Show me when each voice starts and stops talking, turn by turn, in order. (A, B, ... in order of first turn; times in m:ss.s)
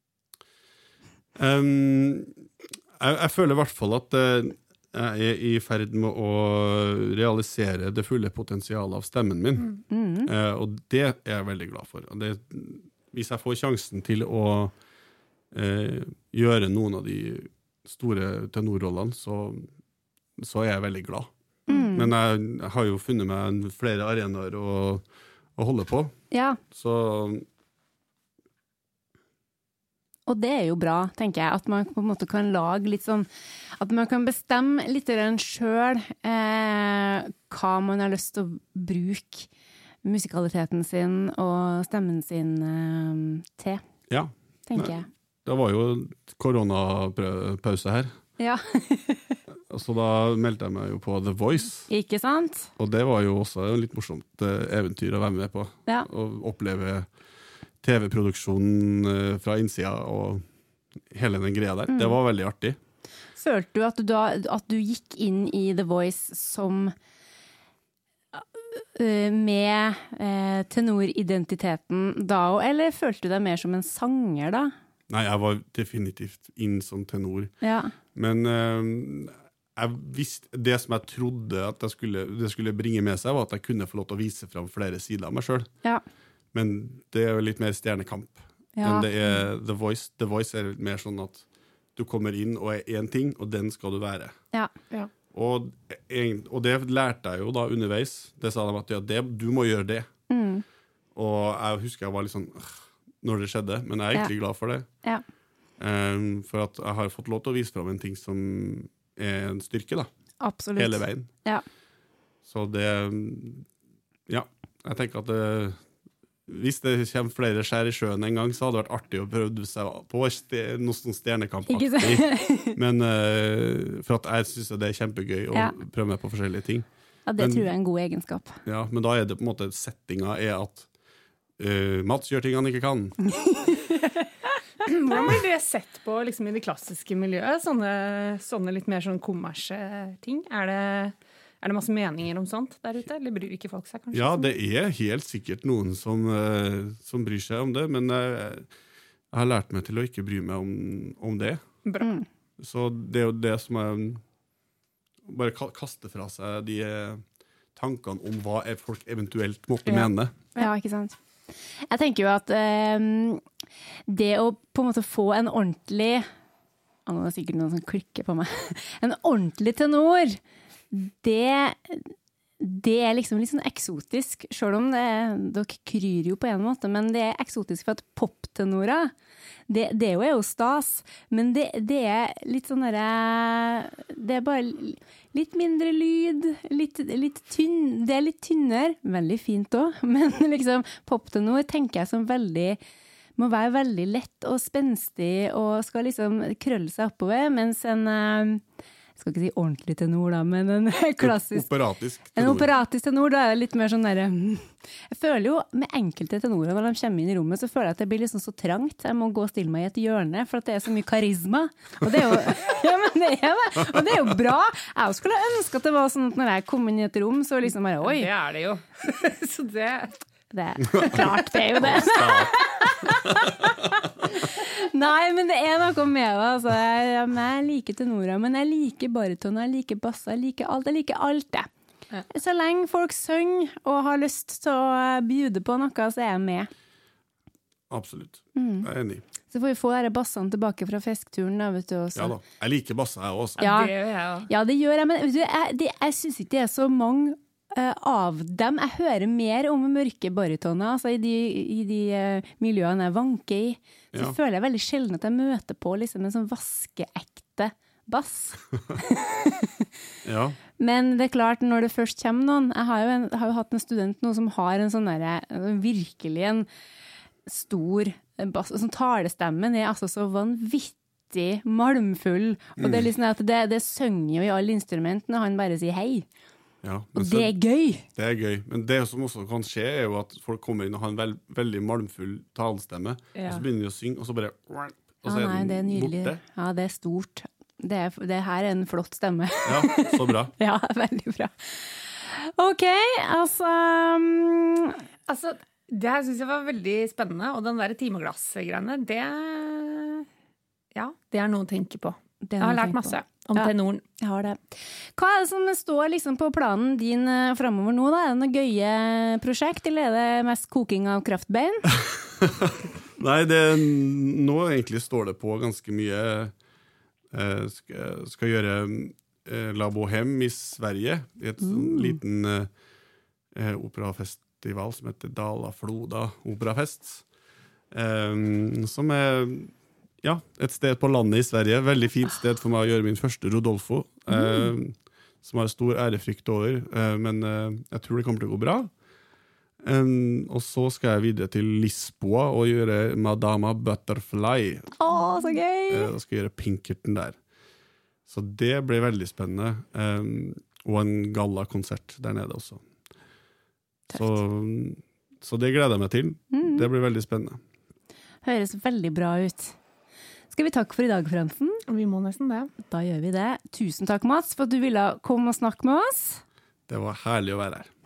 0:01.4-0:14.7 A
0:09.9-0:10.3 B
0:15.5-0:19.7 A
0:20.4-0:21.3 A
0:21.7-0:22.1 B
0:21.9-0:25.0 A
0:25.6-0:26.1 A
0:26.3-0:26.6 B
0:26.7-0:27.4 A
0:30.3-0:39.5 B
0:40.0-0:43.8 B
0:44.1-0:48.1 A
0:44.7-0:45.1 B
0:48.4-0:49.4 B
0:49.6-0:51.9 A
0:51.9-0:52.7 B
0:52.8-0:57.1 A
0:57.8-1:00.4 A
1:01.1-1:02.8 A
1:01.9-1:02.2 B
1:03.4-1:07.0 B
1:08.3-1:14.7 B
1:15.1-1:17.5 A
1:17.6-1:17.9 B
1:18.2-1:25.7 A
1:26.5-1:31.4 A
1:28.8-1:29.4 B
1:32.0-1:34.4 A
1:35.3-1:40.1 A
1:40.3-1:40.6 B
1:41.2-1:44.9 A
1:45.8-1:50.1 A
1:50.4-1:51.6 B
1:50.8-1:51.3 A
1:52.4-1:53.7 A
1:54.3-1:55.8 A
1:56.5-2:06.9 A
2:01.7-2:02.8 B
2:07.3-2:08.6 B
2:07.4-2:07.7 A
2:08.6-2:10.9 A
2:11.6-2:13.2 A
2:13.5-2:13.8 B
2:14.8-2:24.5 C
2:24.1-2:28.7 A
2:29.3-2:31.6 A
2:31.9-2:32.1 C
2:32.6-2:34.2 A
2:35.2-2:40.4 A
2:39.9-2:40.7 C
2:40.6-2:41.2 B
2:41.9-2:43.4 B
2:44.1-2:46.3 B
2:47.1-2:50.4 B
2:50.9-2:59.1 B
2:59.7-3:12.8 B
3:13.4-3:18.6 B
3:19.2-3:21.7 B
3:21.2-3:22.7 A
3:22.4-3:38.3 B
3:32.0-3:32.4 A
3:38.0-3:40.2 C
3:40.5-3:51.7 B
3:40.9-3:41.2 A
3:41.0-3:42.0 C
3:41.8-3:43.8 A
3:52.3-3:56.7 B
3:57.9-3:59.2 A
3:58.6-3:58.9 B
3:59.5-4:02.4 B
4:02.2-4:03.7 A
4:03.6-4:04.5 C
4:03.6-4:03.9 B
4:04.5-4:19.9 B
4:20.2-4:20.6 A
4:20.8-4:26.7 B
4:27.5-4:36.3 B
4:32.8-4:33.1 A
4:36.8-4:37.5 A
4:37.2-4:38.1 B
4:38.2-4:46.4 A
4:43.4-4:43.6 C
4:45.3-4:55.1 B
4:49.6-4:50.5 A
4:55.3-5:00.3 C
5:01.0-5:04.0 C
5:02.5-5:12.0 B
5:12.4-5:16.5 A
5:17.3-5:22.7 A
5:21.6-5:22.2 B
5:23.5-5:27.2 A
5:27.9-5:38.9 A
5:34.3-5:34.7 B
5:39.8-5:45.0 A
5:45.0-5:46.1 B
5:45.9-5:47.4 A
5:48.3-5:52.8 A
5:54.1-5:54.4 B
5:54.1-5:57.6 A
5:56.5-5:56.9 B
5:58.4-5:59.8 B
6:00.5-6:01.8 B
6:01.9-6:02.7 C
6:02.8-6:06.4 B
6:06.9-6:07.9 A